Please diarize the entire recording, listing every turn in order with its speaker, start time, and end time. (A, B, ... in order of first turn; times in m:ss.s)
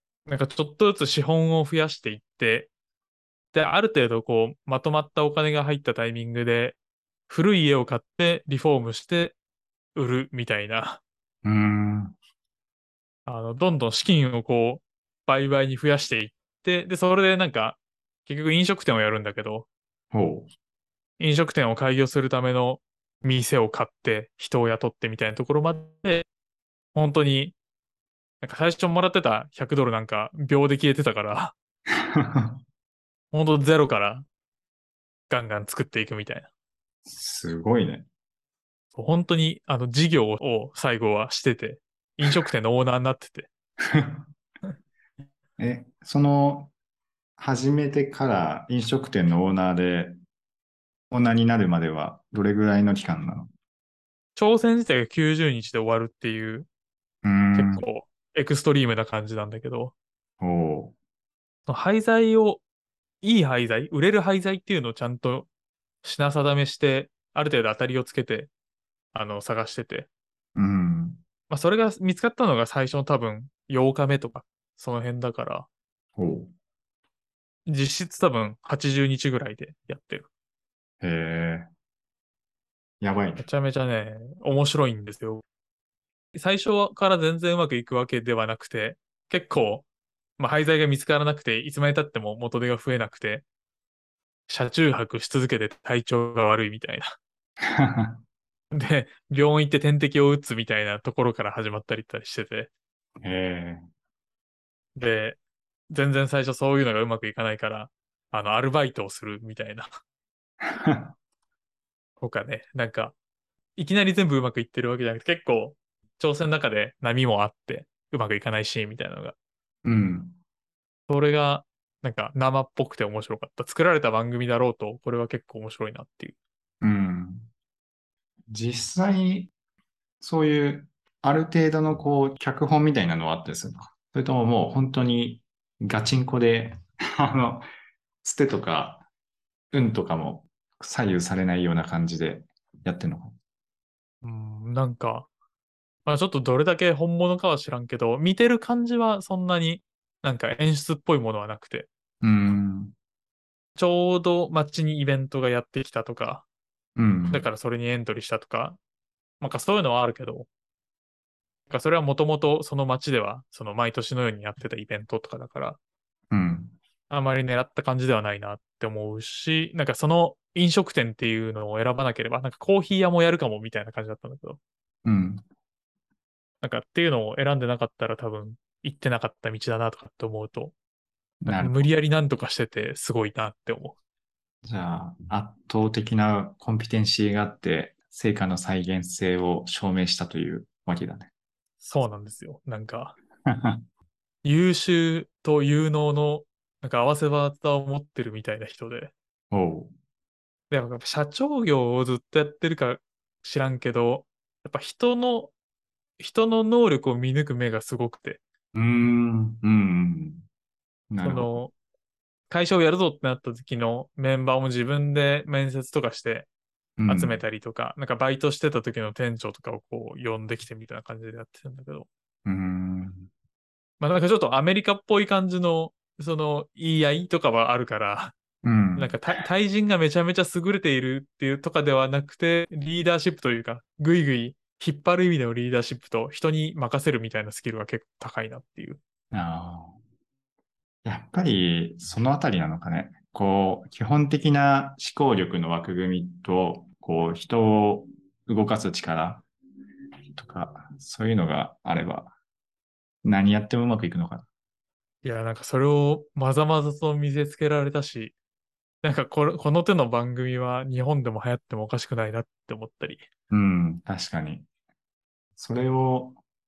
0:00.3-0:02.7 A
0:03.5-0:09.4 A
0:10.0-0:11.0 A
0:11.4-0:12.2 B
0:13.3-0:19.7 A
0:20.1-0:20.5 B
0:21.2-0:26.3 A
0:26.9-0:27.6 A
0:28.4-0:31.6 A
0:32.1-0:32.6 B
0:33.3-0:34.2 A
0:35.3-0:36.5 A
0:37.0-0:38.1 B
0:38.9-0:43.5 A
0:43.9-0:44.3 B
0:45.6-0:46.7 B
0:47.4-0:50.2 B
0:51.1-0:53.5 B
0:54.4-0:56.7 A
0:57.2-0:57.8 B
0:57.5-0:59.9 A
1:00.4-1:01.0 B
1:01.7-1:02.6 A
1:03.2-1:05.5 A
1:06.0-1:08.5 A
1:09.1-1:10.1 A
1:10.6-1:11.2 B
1:11.5-1:15.7 A
1:16.2-1:16.5 B
1:17.7-1:20.3 A
1:21.0-1:21.7 B
1:23.0-1:23.5 B
1:23.4-1:25.4 A
1:26.4-1:29.9 A
1:30.4-1:33.4 A
1:34.5-1:37.1 A
1:37.6-1:38.2 B
1:38.7-1:42.7 A
1:43.2-1:43.8 B
1:45.0-1:45.4 A
1:45.9-1:49.9 A
1:50.6-1:51.1 B
1:52.2-1:53.2 A
1:53.8-1:59.4 A
1:59.8-2:00.4 B
2:01.1-2:06.4 A
2:06.8-2:07.5 B
2:08.5-2:09.5 B
2:10.2-2:17.7 B
2:18.2-2:19.1 B
2:19.7-2:23.4 B
2:24.2-2:25.3 A
2:26.0-2:31.9 A
2:32.2-2:33.0 B
2:33.8-2:36.4 A
2:37.0-2:37.5 B
2:37.3-2:38.8 A
2:39.4-2:40.5 A
2:41.7-2:45.8 A
2:46.3-2:46.8 B
2:47.1-2:54.6 A
2:55.0-2:55.4 B
2:56.6-3:00.8 A
3:01.4-3:04.0 A
3:01.4-3:01.9 B
3:04.6-3:11.3 B
3:11.8-3:13.2 A
3:13.5-3:13.8 B
3:14.4-3:19.1 A
3:19.5-3:19.9 B
3:20.7-3:25.5 A
3:26.2-3:28.4 A
3:28.7-3:30.4 B
3:31.1-3:31.6 B
3:31.2-3:31.7 A
3:32.5-3:36.5 A
3:37.0-3:37.4 B
3:37.1-3:42.1 A
3:42.4-3:43.3 B
3:44.0-3:48.3 A
3:48.6-3:49.2 B
3:49.0-3:59.0 A
3:59.3-4:00.0 B
4:01.0-4:09.5 B
4:10.4-4:12.4 B
4:13.2-4:14.5 B
4:15.2-4:18.4 A
4:19.0-4:23.2 A
4:23.5-4:24.7 B
4:25.6-4:26.4 B